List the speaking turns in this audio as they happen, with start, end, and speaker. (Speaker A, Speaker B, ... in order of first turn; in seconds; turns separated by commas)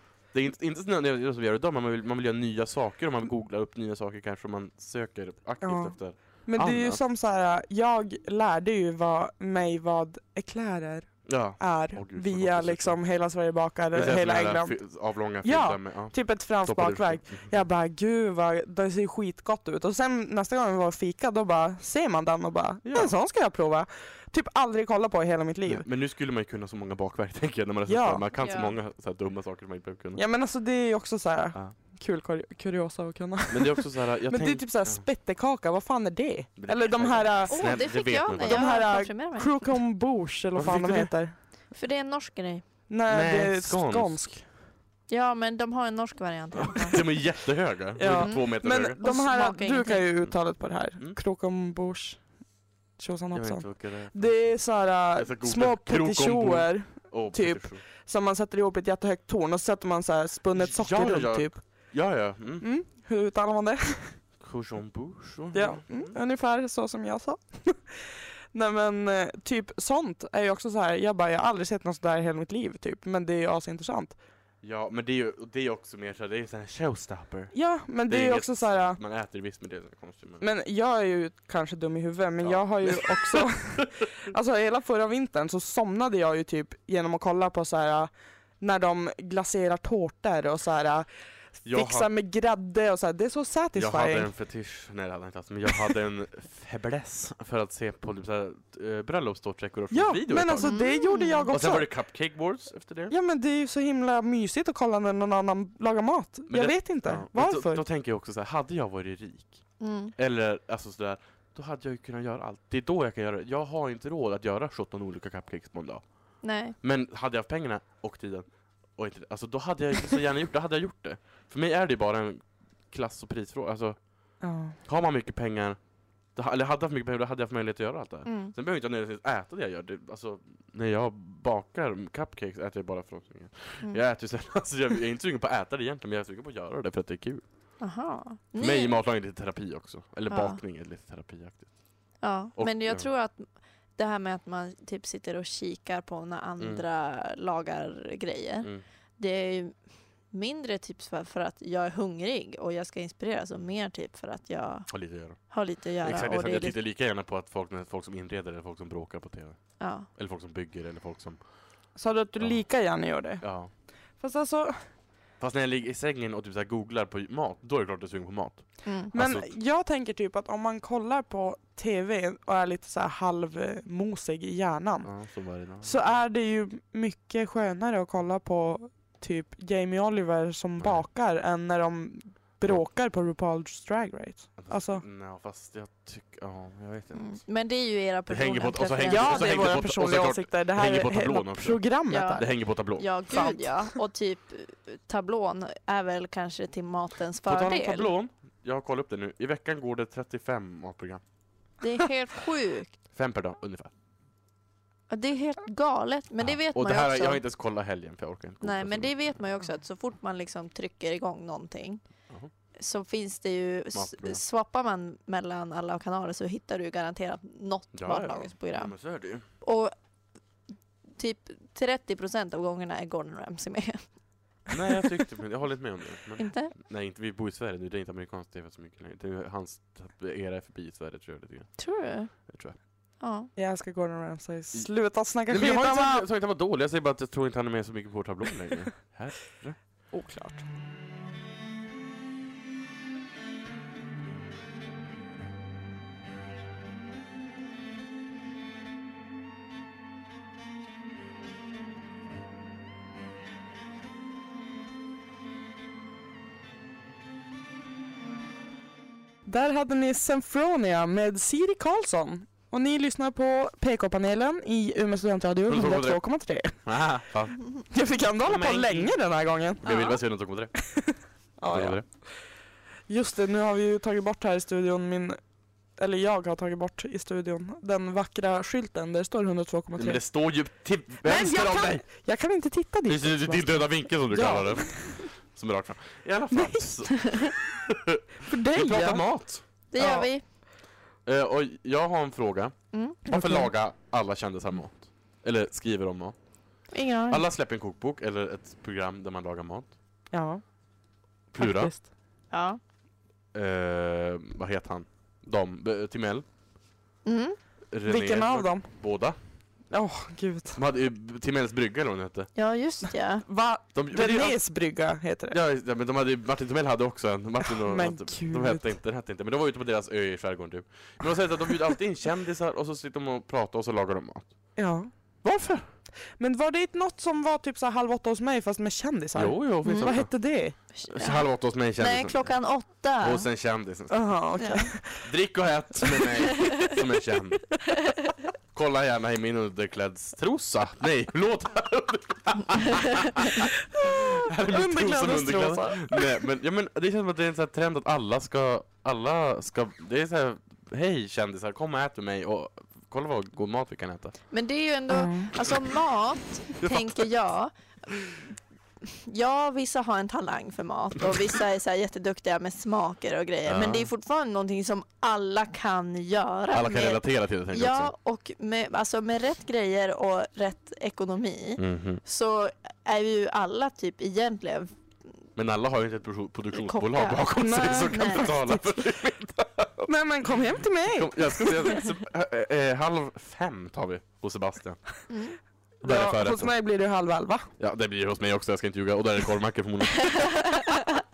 Speaker A: 0.3-7.0, Speaker B: 5.6-14.8, Speaker A: 11.2-13.0, Speaker A: 13.9-17.5, Speaker B: 15.4-25.9, Speaker A: 22.9-23.1, Speaker A: 25.7-30.2, Speaker B: 27.9-28.2, Speaker C: 28.4-28.7, Speaker B: 30.1-37.8, Speaker A: 33.5-35.0, Speaker A: 36.6-38.8, Speaker C: 37.5-39.6, Speaker B: 38.4-41.4, Speaker A: 40.5-41.1, Speaker C: 41.7-42.6, Speaker B: 42.9-44.4, Speaker A: 43.1-44.4, Speaker C: 45.1-47.0, Speaker A: 46.6-49.0, Speaker B: 48.0-52.2, Speaker C: 48.1-48.5, Speaker C: 49.0-50.0, Speaker B: 53.0-61.6, Speaker A: 53.3-54.3, Speaker A: 55.1-57.9, Speaker A: 60.5-62.7, Speaker B: 62.6-64.2, Speaker A: 64.4-66.1, Speaker B: 65.5-74.2, Speaker A: 74.6-77.5, Speaker B: 77.5-79.0, Speaker A: 78.1-80.5, Speaker B: 80.4-91.1, Speaker A: 82.4-83.9, Speaker A: 91.6-92.1, Speaker B: 91.6-94.3, Speaker A: 93.8-100.7, Speaker B: 99.9-101.9, Speaker C: 100.6-101.5, Speaker A: 101.5-103.1, Speaker B: 103.1-107.8, Speaker A: 106.5-116.0, Speaker C: 109.8-110.1, Speaker C: 116.4-116.7, Speaker A: 116.8-124.0, Speaker B: 124.4-124.8, Speaker A: 124.8-125.8, Speaker A: 126.4-137.4, Speaker C: 128.2-128.5, Speaker C: 137.8-139.0, Speaker A: 138.6-141.7, Speaker C: 140.3-140.6, Speaker C: 142.2-149.8, Speaker A: 142.6-143.1, Speaker C: 150.3-154.9, Speaker A: 154.9-155.4, Speaker C: 155.5-156.8, Speaker A: 156.0-161.4, Speaker C: 159.8-160.1, Speaker B: 161.9-163.4, Speaker A: 163.4-163.7, Speaker B: 164.2-164.8, Speaker A: 165.4-169.5, Speaker C: 168.8-169.1, Speaker B: 169.1-175.1, Speaker A: 175.0-176.0, Speaker B: 175.8-185.0, Speaker A: 180.8-181.0, Speaker A: 184.6-187.4, Speaker C: 187.1-189.6, Speaker A: 188.3-191.8, Speaker B: 189.1-192.5, Speaker C: 192.1-198.1, Speaker A: 192.4-193.1, Speaker B: 193.3-194.0, Speaker A: 197.4-201.2, Speaker C: 201.8-202.9, Speaker A: 203.1-203.9, Speaker C: 205.1-207.4, Speaker A: 206.4-209.1, Speaker C: 208.6-212.0, Speaker C: 212.8-218.9, Speaker A: 213.9-214.4, Speaker A: 217.9-219.4, Speaker C: 219.6-219.9, Speaker C: 221.2-224.0, Speaker A: 224.7-231.8, Speaker C: 226.4-226.7, Speaker C: 231.8-232.3, Speaker A: 232.3-232.8, Speaker C: 233.2-233.5, Speaker B: 233.6-236.2, Speaker A: 235.4-239.8, Speaker B: 240.1-240.6, Speaker B: 259.4-266.8, Speaker A: 265.7-266.2, Speaker A: 266.8-267.8, Speaker B: 267.9-270.1, Speaker A: 268.4-269.1, Speaker A: 269.8-270.8, Speaker C: 269.9-270.2, Speaker B: 270.9-272.0, Speaker A: 271.6-272.0, Speaker B: 273.1-275.4, Speaker B: 276.0-280.2, Speaker A: 279.9-282.1, Speaker B: 281.2-285.2, Speaker A: 283.1-288.2, Speaker B: 286.5-286.9, Speaker C: 287.2-287.5, Speaker B: 288.5-289.2, Speaker A: 288.7-289.6, Speaker C: 289.9-290.4, Speaker B: 290.0-290.3, Speaker A: 291.2-296.4, Speaker C: 292.9-293.2, Speaker B: 293.3-293.7, Speaker C: 296.9-297.4, Speaker A: 297.3-299.9, Speaker B: 300.3-300.6, Speaker A: 301.5-301.9, Speaker B: 301.6-302.1, Speaker C: 302.5-302.8, Speaker A: 303.5-306.4, Speaker C: 307.2-307.6, Speaker A: 307.9-309.4, Speaker B: 308.1-308.9, Speaker B: 309.9-310.8, Speaker A: 310.7-312.5, Speaker C: 312.5-313.4, Speaker B: 313.4-315.6, Speaker A: 313.9-314.6, Speaker A: 315.5-324.5, Speaker B: 317.7-318.9, Speaker B: 324.8-325.1, Speaker A: 325.4-325.9, Speaker B: 326.4-330.8, Speaker A: 329.4-330.4, Speaker C: 329.9-330.1, Speaker C: 330.9-333.5, Speaker A: 331.1-332.6, Speaker A: 333.2-334.2, Speaker B: 334.1-335.3, Speaker C: 334.6-334.9, Speaker A: 335.2-337.8, Speaker A: 338.7-354.4, Speaker B: 343.9-346.4, Speaker C: 354.5-357.7, Speaker B: 355.1-355.5, Speaker A: 356.8-357.2, Speaker C: 359.0-374.9, Speaker A: 363.7-364.1, Speaker A: 366.7-368.1, Speaker A: 371.8-372.2, Speaker A: 375.6-380.1, Speaker C: 376.7-378.5, Speaker B: 377.6-378.9, Speaker B: 380.0-382.0, Speaker A: 381.1-385.0, Speaker C: 385.3-385.6, Speaker A: 386.0-386.7, Speaker B: 386.0-387.7, Speaker A: 387.8-390.7, Speaker C: 390.3-391.1